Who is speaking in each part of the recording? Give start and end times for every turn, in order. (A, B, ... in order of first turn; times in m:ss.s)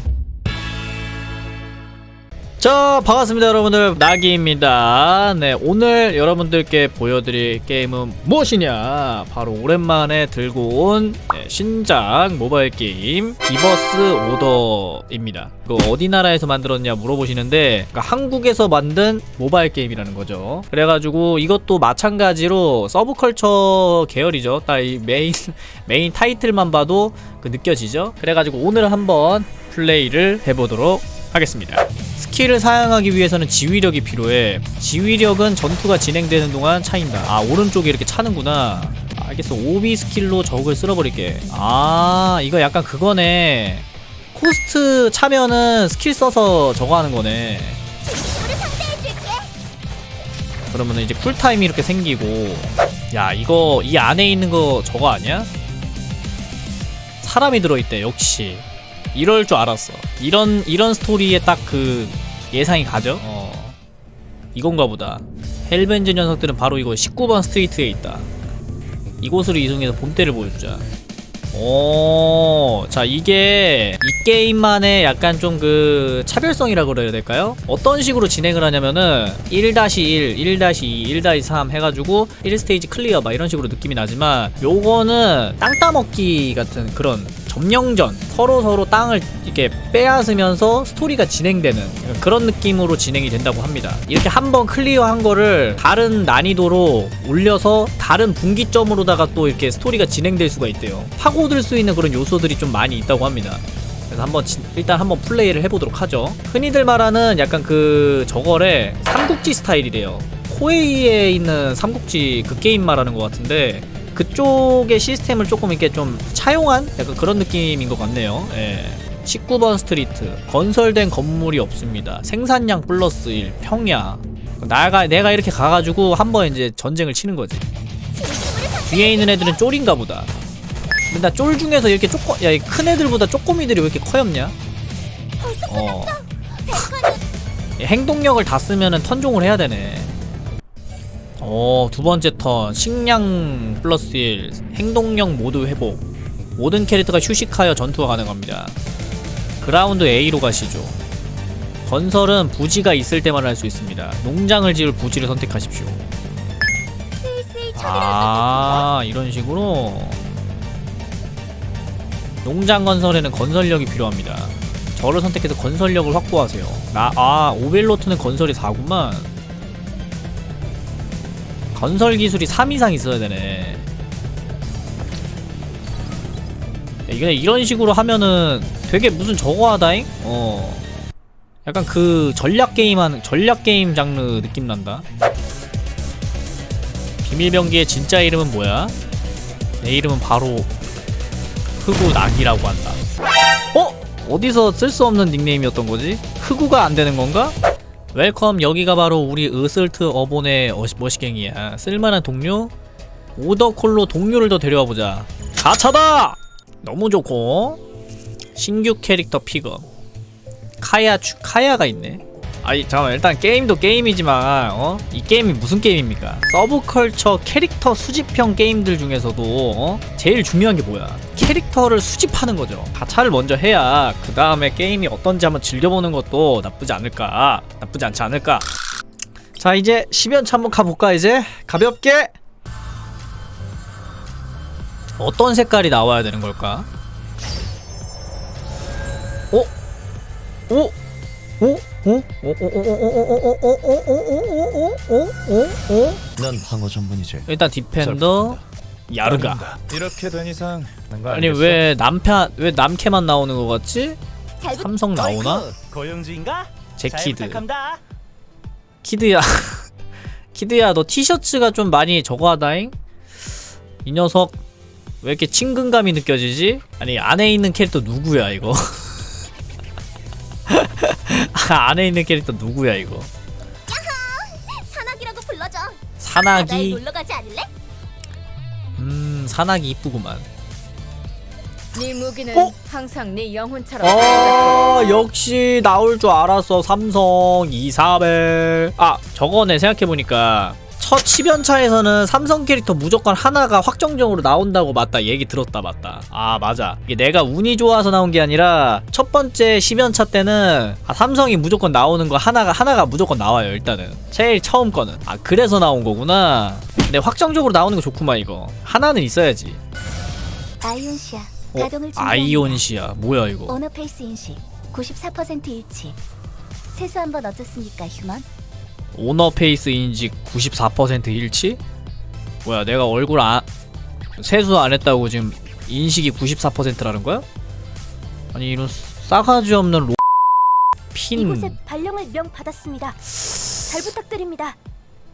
0:02.6-0:47.8 A
0:48.0-0:49.5 B
0:50.7-0:55.5 A
0:57.2-1:03.8 A
1:04.5-1:08.3 A
1:09.2-1:10.9 A
1:11.5-2:07.6 A
2:08.1-2:09.6 B
2:08.9-2:10.3 A
2:11.1-2:14.6 A
2:15.4-2:17.2 B
2:15.7-2:16.1 A
2:17.8-2:20.1 A
2:21.4-2:26.0 A
2:26.6-2:28.8 A
2:29.6-2:31.0 A
2:31.8-2:36.0 A
2:37.2-2:38.9 B
2:37.7-2:40.2 A
2:42.4-2:49.3 A
2:51.7-2:53.8 A
2:57.1-3:00.8 A
3:01.6-3:05.0 A
3:07.2-3:08.9 A
3:09.8-3:10.7 A
3:11.8-3:13.0 A
3:13.7-3:17.5 A
3:18.1-3:22.7 A
3:23.4-3:27.8 A
3:28.6-3:29.9 A
3:30.8-3:48.6 A
3:49.6-3:52.3 A
3:55.2-3:56.9 A
4:00.7-4:00.9 A
4:01.6-4:06.2 A
4:06.4-4:08.6 C
4:07.5-4:09.7 A
4:09.2-4:11.8 C
4:11.3-4:14.2 A
4:14.6-4:14.9 B
4:14.7-4:15.6 A
4:15.2-4:18.0 D
4:17.0-4:17.6 A
4:19.0-4:19.9 A
4:20.5-4:22.9 A
4:24.0-4:24.6 A
4:25.2-4:29.2 A
4:30.7-4:33.3 A
4:33.9-4:37.7 B
4:36.2-4:37.0 A
4:39.0-4:40.4 A
4:41.9-4:45.2 E
4:44.0-5:09.8 A
5:10.8-5:12.8 B
5:11.7-5:13.8 A
5:13.7-5:16.2 B
5:16.9-5:18.5 B
5:19.1-5:21.8 A
5:22.6-5:23.6 A
5:24.4-5:27.4 A
5:28.5-5:30.2 A
5:31.1-5:31.8 A
5:31.3-5:34.8 B